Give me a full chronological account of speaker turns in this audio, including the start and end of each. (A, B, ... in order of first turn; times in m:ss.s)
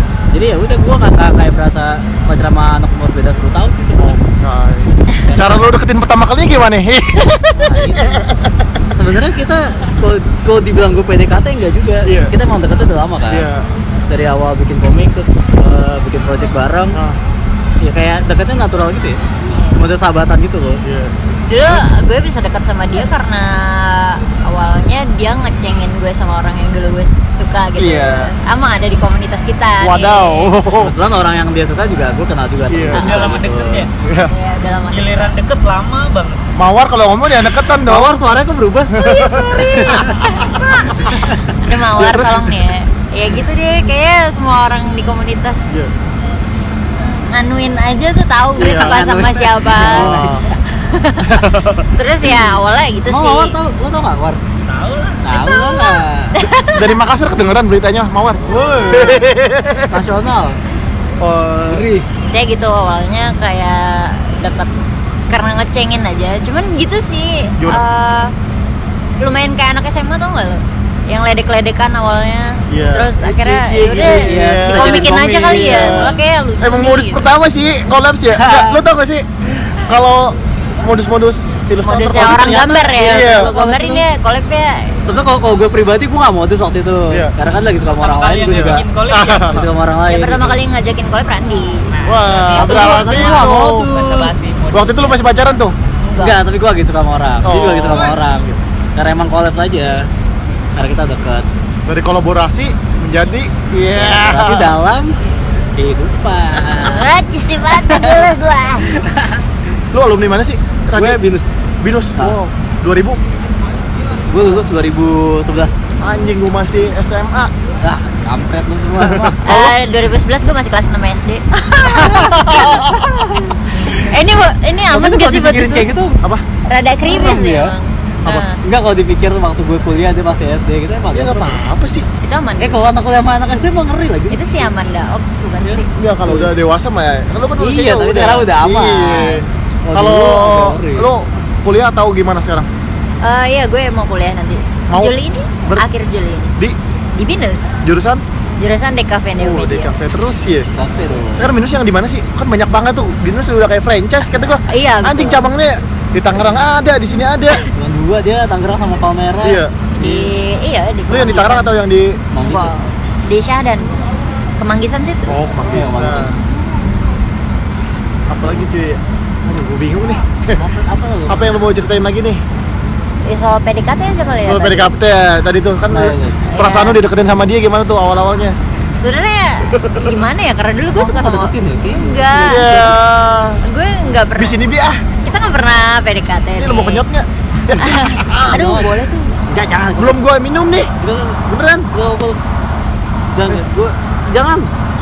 0:00.3-0:04.2 A
0:04.0-0:08.5 B
0:05.3-0:05.6 A
0:07.5-0:08.3 A
0:08.9-0:13.5 A
0:12.0-0:12.3 B
0:13.3-0:13.6 B
0:14.1-0:17.0 A
0:16.9-0:17.2 B
0:17.8-0:19.2 A
0:19.8-0:20.8 A
0:20.8-0:21.1 B
0:21.5-0:30.5 C
0:21.7-0:21.9 B
0:27.8-0:28.3 B
0:29.8-0:31.0 B
0:30.8-0:33.9 A
0:32.7-0:33.3 B
0:32.9-0:33.9 D
0:34.0-0:34.3 B
0:34.3-0:35.3 C
0:34.9-0:36.4 D
0:36.6-0:38.2 B
0:37.8-0:39.1 A
0:38.9-0:40.0 B
0:39.0-0:45.9 C
0:39.7-0:40.2 A
0:42.0-0:42.6 B
0:47.0-0:51.3 C
0:48.6-0:49.0 B
0:48.6-0:50.5 A
0:49.8-0:50.4 B
0:51.2-0:51.9 B
0:52.0-0:53.6 C
0:53.1-0:54.4 A
0:54.7-0:55.3 D
0:55.2-0:56.4 A
0:55.4-0:56.8 C
0:56.5-1:00.0 B
0:58.5-0:59.2 A
0:59.9-1:00.6 A
1:01.2-1:01.9 B
1:01.7-1:02.1 A
1:02.3-1:04.7 C
1:05.3-1:08.3 C
1:07.6-1:07.8 B
1:09.2-1:17.3 C
1:12.7-1:19.2 B
1:14.0-1:16.2 A
1:18.3-1:18.8 A
1:19.8-1:23.5 B
1:21.8-1:25.0 C
1:22.1-1:24.0 A
1:25.1-1:28.9 A
1:28.0-1:29.6 D
1:28.5-1:29.7 B
1:29.5-1:30.6 A
1:30.1-1:33.0 C
1:31.9-1:35.4 D
1:32.0-1:33.9 B
1:32.5-1:34.5 A
1:34.7-1:35.8 B
1:36.0-1:36.4 C
1:36.2-1:40.1 A
1:37.4-1:38.2 B
1:40.8-1:41.5 A
1:41.9-1:44.8 B
1:43.9-1:45.1 A
1:45.8-1:47.1 A
1:46.7-1:48.9 C
1:47.7-1:48.3 A
1:48.9-1:49.4 A
1:49.9-1:51.2 B
1:51.0-1:51.5 A
1:51.8-1:53.2 B
1:54.3-1:55.8 A
1:56.0-1:57.5 B
1:57.8-1:59.4 A
1:59.0-1:59.8 B
1:59.4-2:02.8 C
2:01.8-2:03.6 A
2:02.0-2:03.0 B
2:03.8-2:05.9 C
2:04.9-2:06.2 A
2:06.7-2:08.6 C
2:07.0-2:07.8 A
2:08.6-2:11.6 A
2:11.1-2:12.1 B
2:12.2-2:12.8 C
2:12.6-2:14.4 A
2:14.3-2:15.9 C
2:15.6-2:16.5 A
2:15.9-2:22.7 B
2:17.6-2:21.1 A
2:23.2-2:26.5 C
2:24.9-2:25.8 B
2:27.2-2:27.7 C
2:27.8-2:28.2 B
2:28.6-2:29.9 C
2:29.4-2:30.7 B
2:30.8-2:31.5 A
2:31.4-2:37.6 B
2:34.7-2:35.5 C
2:37.7-2:40.3 A
2:39.4-2:39.7 B
2:40.0-2:41.7 C
2:41.1-2:42.2 B
2:42.3-2:42.8 A
2:42.4-2:44.0 C
2:44.6-2:45.4 C
2:45.3-2:46.4 B
2:45.7-2:46.4 A
2:48.3-2:50.6 B
2:50.5-2:51.6 A
2:51.3-2:52.4 B
2:53.3-2:55.0 C
2:54.4-2:58.6 B
2:55.9-2:56.4 A
2:56.4-2:57.0 C
2:59.0-3:02.9 C
2:59.7-3:00.2 B
3:01.0-3:02.9 A
3:02.4-3:03.6 B
3:03.6-3:04.6 C
3:04.4-3:05.0 B
3:05.2-3:07.0 C
3:06.6-3:08.6 B
3:07.8-3:09.4 C
3:08.5-3:08.9 A
3:09.4-3:10.2 A
3:10.0-3:10.9 B
3:11.0-3:12.4 A
3:11.5-3:11.9 B
3:13.3-3:14.7 A